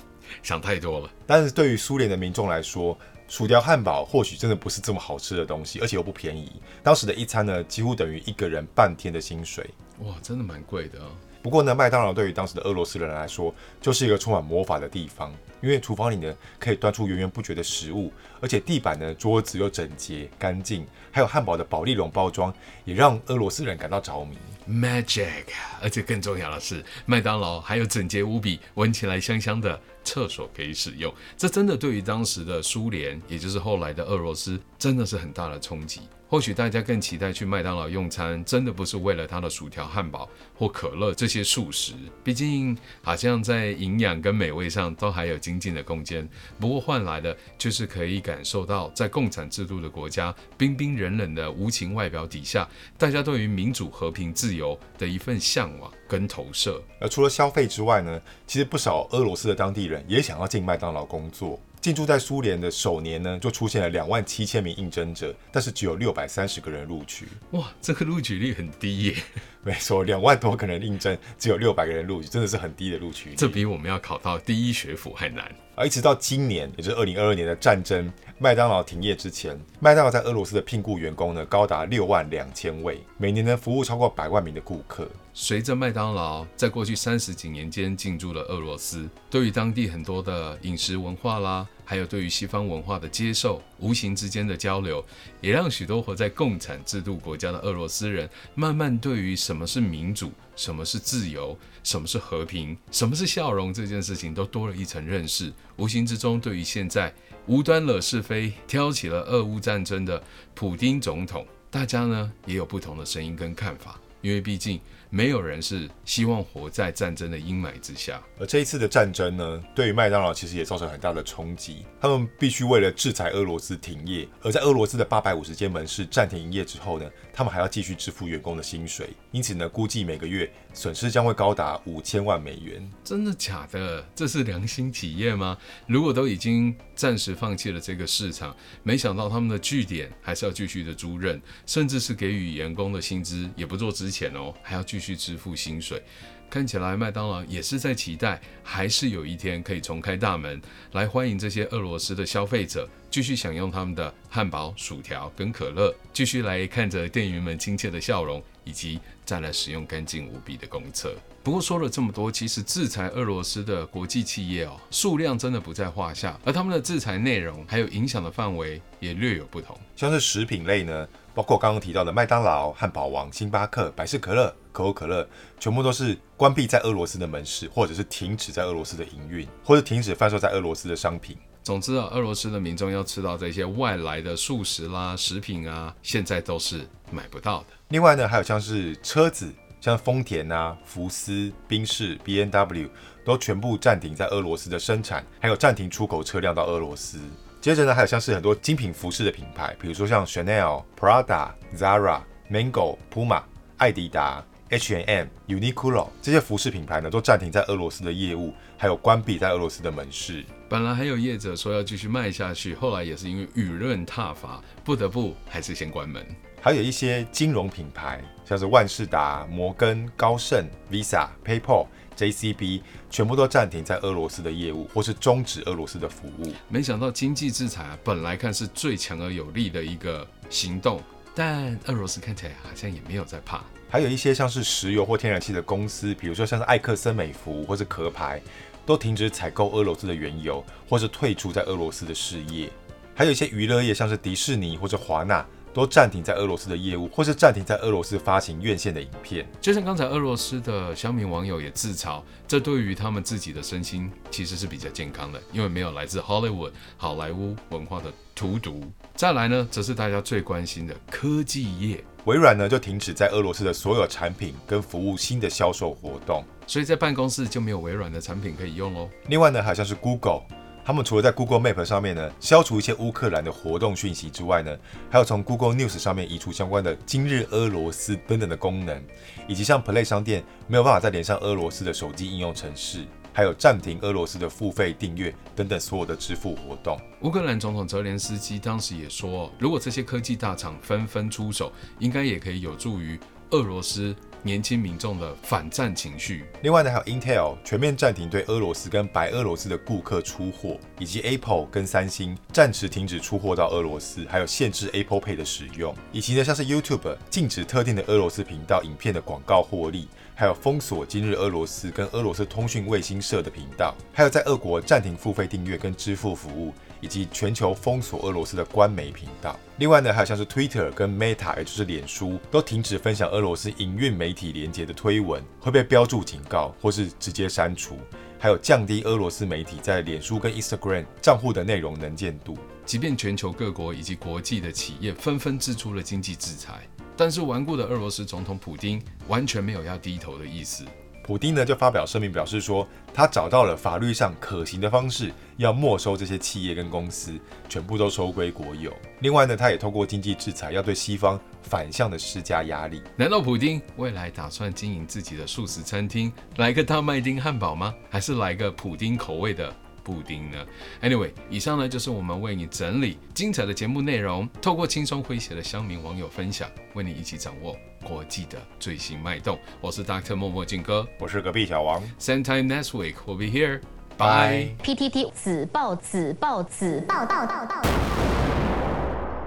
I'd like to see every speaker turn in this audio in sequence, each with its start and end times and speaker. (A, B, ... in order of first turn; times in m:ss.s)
0:00.4-0:01.1 A
0:01.3-0:09.7 B
0:10.0-0:11.2 A
0:11.4-0:24.6 B
0:24.6-0:56.9 A
0:57.0-1:07.4 B
1:07.5-1:09.2 A
1:09.6-1:13.6 B
1:13.4-1:15.6 A
1:15.8-1:25.2 B
1:25.3-1:58.2 A
1:58.4-2:12.9 B
2:13.0-2:49.8 A
2:50.0-3:01.4 B
3:01.6-3:07.8 A
3:07.9-3:30.5 B
3:30.7-3:36.4 A
3:36.6-3:46.6 B
3:46.7-3:53.7 A
3:53.9-4:09.5 B
4:09.6-4:22.0 A
4:22.2-4:26.5 B
4:26.7-4:29.1 A
4:29.2-4:47.0 B
4:47.2-4:56.5 A
4:56.6-5:32.6 B
5:32.9-5:40.9 A
5:41.2-5:53.1 B
5:53.2-6:11.1 A
6:11.2-6:12.1 B
6:12.2-6:14.8 A
6:14.2-6:14.8 B
6:14.8-6:17.9 C